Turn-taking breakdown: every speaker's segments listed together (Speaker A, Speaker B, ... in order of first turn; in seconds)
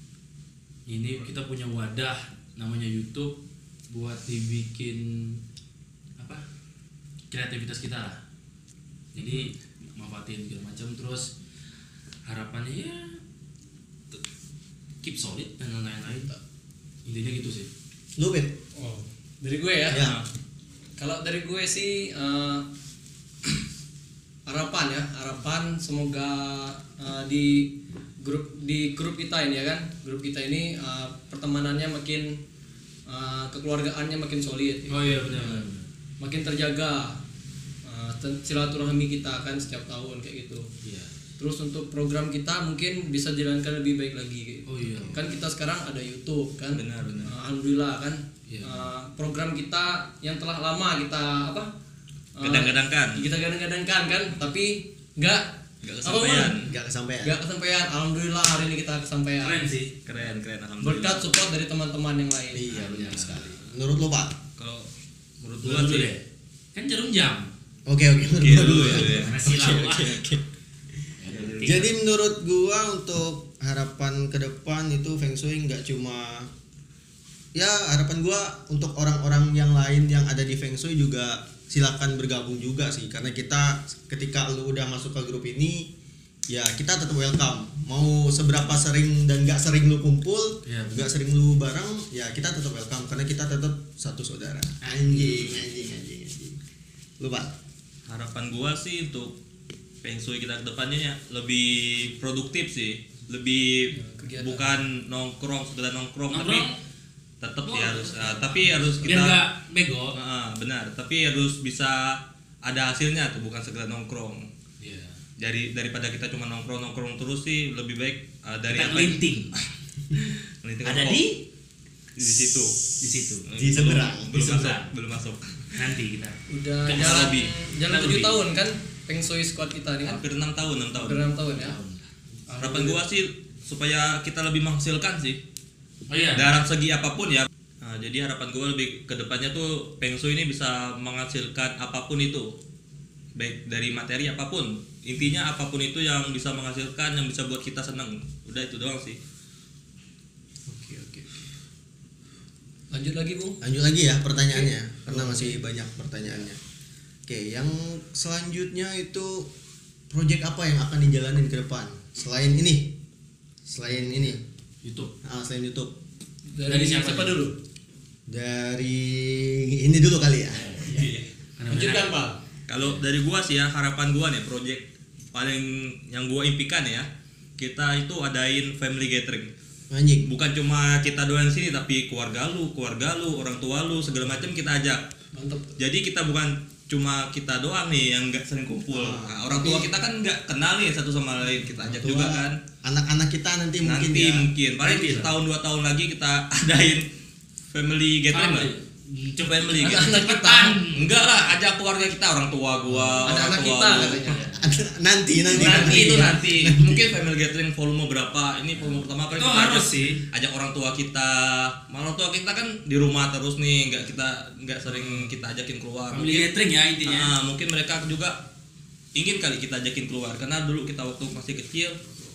Speaker A: 0.9-3.4, 3.9-5.4, 6.2-6.4, 7.3-8.2, 9.2-11.3, 12.3-13.2, 15.0-16.3, 17.1-17.7, 34.9-35.9, 40.8-41.1, 44.7-45.2, 48.5-48.9, 59.4-59.9, 62.7-63.7, 65.6-66.2, 66.8-67.5, 69.0-70.2, 71.2-71.9, 90.7-91.1, 94.8-95.5, 106.3-106.8, 107.7-110.2, 114.8-115.2, 118.7-119.6, 120.8-121.4, 123.0-123.5, 124.3-124.9, 125.8-127.2, 127.9-128.4, 131.5-132.1, 136.1-136.5, 164.8-165.1, 166.7-167.4, 171.6-172.1, 194.8-195.3, 198.3-201.0, 202.8-203.4, 204.2-204.6, 205.6-206.3, 208.8-210.2, 214.9-215.3, 216.1-217.3
Speaker B: 9.2-9.5, 19.9-20.2, 46.7-47.3, 52.4-53.2, 55.8-56.7, 60.1-61.3, 64.6-64.9, 65.4-66.1, 68.4-69.3, 98.1-99.3, 100.0-106.7, 107.4-109.4, 110.1-114.5, 115.4-119.2, 120.2-121.3, 122.2-122.8, 123.5-125.7, 127.0-127.5, 130.1-131.2, 132.6-135.4, 136.3-142.5, 143.4-149.2, 172.7-177.1, 177.6-179.5, 180.3-185.0, 185.8-192.6, 193.8-197.1, 197.7-198.7, 199.4-200.1, 200.9-204.3, 205.6-216.5, 217.1-218.4, 219.2-222.0
Speaker C: 16.1-16.4, 18.8-20.0, 21.0-22.6, 24.5-32.4, 33.1-35.7, 36.2-37.2, 37.9-40.7, 41.4-51.7, 52.4-55.5, 56.0-56.6, 57.2-59.6, 60.8-62.7, 103.9-104.8, 108.6-109.1, 126.5-130.2, 130.9-131.8, 132.5-133.0, 152.9-153.6, 154.5-155.6, 166.5-167.6, 170.8-171.1, 171.7-172.4, 185.3-185.8, 199.8-200.8, 203.2-204.3
Speaker D: 18.2-18.6, 19.9-20.2, 56.6-57.4, 62.5-64.4, 67.9-70.4, 71.6-76.5, 77.5-85.9, 86.5-96.6, 97.2-97.5, 123.5-124.3, 150.7-151.3, 153.6-156.6, 157.3-159.5, 160.1-162.9, 163.7-164.4, 165.2-165.9, 168.3-170.8, 179.9-180.3, 188.9-189.9, 191.9-194.5, 203.9-207.1